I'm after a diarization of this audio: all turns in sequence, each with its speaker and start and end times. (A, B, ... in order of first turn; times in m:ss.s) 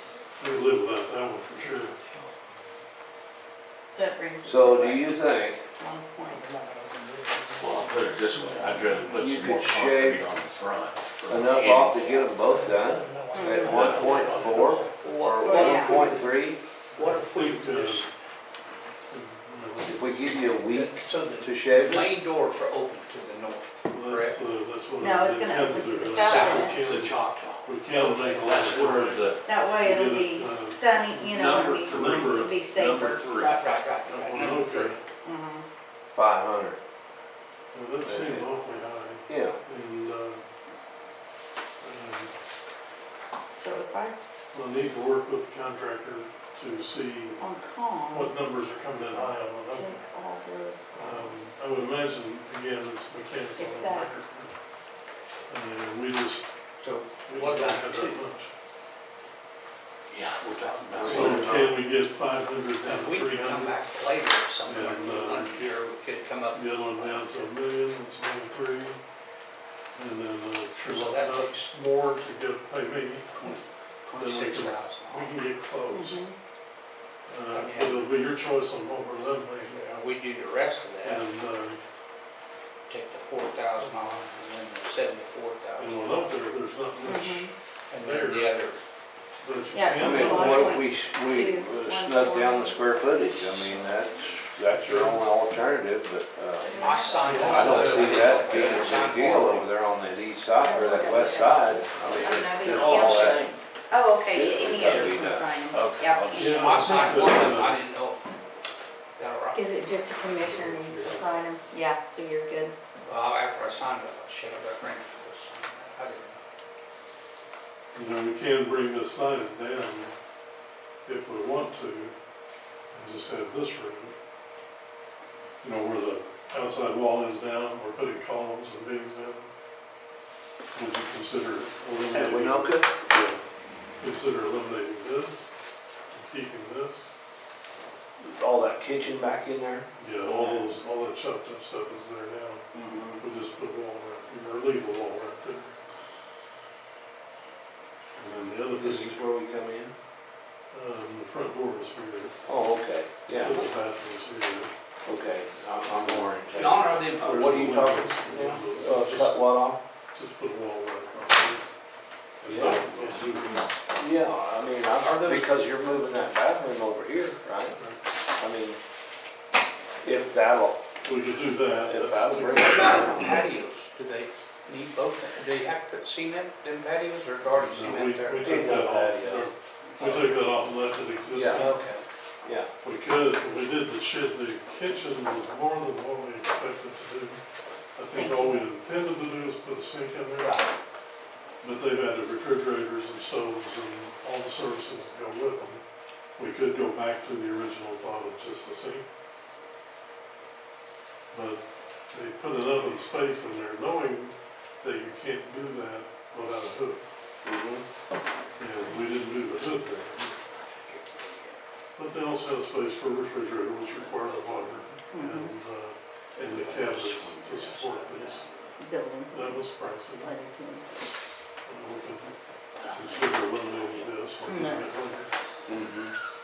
0:00.4-0:02.0 A
0:01.6-0:02.0 B
0:03.9-0:05.2 C
0:04.4-0:05.6 D
0:05.8-0:06.5 C
0:07.6-0:12.0 E
0:08.4-0:08.8 B
0:09.1-0:10.2 D
0:11.3-0:16.6 D
0:11.9-0:12.2 C
0:12.6-0:18.1 B
0:13.3-0:13.9 C
0:13.7-0:14.6 E
0:15.4-0:16.1 C
0:16.9-0:18.1 A
0:19.1-0:20.6 A
0:19.8-0:22.1 D
0:20.7-0:24.4 B
0:23.9-0:32.5 A
0:25.0-0:26.8 C
0:26.0-0:26.8 B
0:26.7-0:29.4 E
0:28.0-0:28.2 B
0:29.4-0:33.5 C
0:31.4-0:33.6 E
0:33.3-0:35.0 B
0:34.1-0:35.0 A
0:35.2-0:35.6 C
0:36.1-0:36.8 D
0:37.7-0:40.4 A
0:38.0-0:38.4 D
0:39.3-0:39.6 D
0:41.8-0:42.3 A
0:43.5-0:44.2 C
0:44.5-0:47.4 A
0:47.4-0:48.4 C
0:48.1-0:50.0 A
0:48.9-0:51.4 C
0:50.9-0:54.5 A
0:53.6-0:54.2 C
0:55.5-0:56.5 A
0:56.8-0:58.2 B
0:57.2-0:58.5 A
1:00.1-1:01.7 E
1:00.9-1:01.7 D
1:01.0-1:03.8 A
1:02.8-1:07.5 B
1:04.6-1:05.7 A
1:06.5-1:09.0 A
1:09.9-1:13.6 A
1:10.9-1:11.7 B
1:14.0-1:15.3 B
1:14.1-1:16.2 A
1:15.9-1:16.3 C
1:17.3-1:19.9 A
1:17.5-1:18.1 B
1:19.7-1:21.3 B
1:21.0-1:21.8 A
1:22.9-1:26.0 B
1:23.8-1:24.2 A
1:25.8-1:28.5 A
1:27.0-1:27.5 C
1:27.9-1:28.8 B
1:29.4-1:30.8 A
1:29.7-1:33.8 C
1:30.0-1:43.5 D
1:34.6-1:35.3 A
1:36.6-1:38.0 C
1:36.7-1:39.7 B
1:37.2-1:38.4 A
1:37.4-1:39.3 E
1:40.6-1:47.3 C
1:42.1-1:43.6 E
1:44.3-1:46.2 D
1:44.7-1:45.2 E
1:46.1-1:47.1 E
1:46.3-1:47.8 A
1:46.4-1:48.2 B
1:49.2-1:49.7 B
1:49.5-1:52.7 C
1:50.4-1:51.4 A
1:53.0-1:56.4 B
1:57.9-2:00.1 A
2:01.0-2:02.1 A
2:02.9-2:04.1 A
2:05.6-2:09.5 A
2:10.7-2:13.4 A
2:12.1-2:12.9 D
2:14.0-2:15.5 A
2:16.1-2:17.1 A
2:18.2-2:20.6 D
2:20.0-2:22.6 A
2:22.7-2:23.2 D
2:23.2-2:25.8 A
2:28.2-2:29.2 A
2:28.8-2:29.9 D
2:30.7-2:32.4 A
2:32.4-2:33.7 D
2:33.3-2:34.7 A
2:35.0-2:39.8 D
2:35.9-2:36.3 A
2:36.5-2:37.5 B
2:37.2-2:39.4 A
2:40.1-2:41.7 A
2:42.4-2:43.7 A
2:42.4-2:47.8 D
2:45.0-2:45.5 B
2:47.7-2:48.0 A
2:48.4-2:48.8 D
2:50.0-2:50.8 D
2:51.0-2:53.1 A
2:51.8-2:53.5 D
2:52.5-2:58.6 B
2:57.5-3:01.7 A
2:58.4-2:59.5 D
3:00.0-3:00.3 B
3:01.3-3:01.7 D
3:01.4-3:02.0 B
3:02.8-3:07.4 A
3:08.0-3:10.6 A
3:08.1-3:08.6 C
3:11.6-3:15.8 A
3:16.4-3:19.0 A
3:21.3-3:27.0 A
3:27.4-3:27.8 D
3:28.6-3:30.4 A
3:30.9-3:31.2 E
3:32.0-3:38.5 A
3:35.1-3:35.5 C
3:36.4-3:38.3 B
3:36.5-3:37.7 E
3:38.8-3:39.7 C
3:39.3-3:40.4 A
3:40.2-3:40.9 C
3:41.6-3:42.3 A
3:42.9-3:44.0 B
3:42.9-3:45.3 A
3:44.4-3:44.9 C
3:45.7-3:46.1 E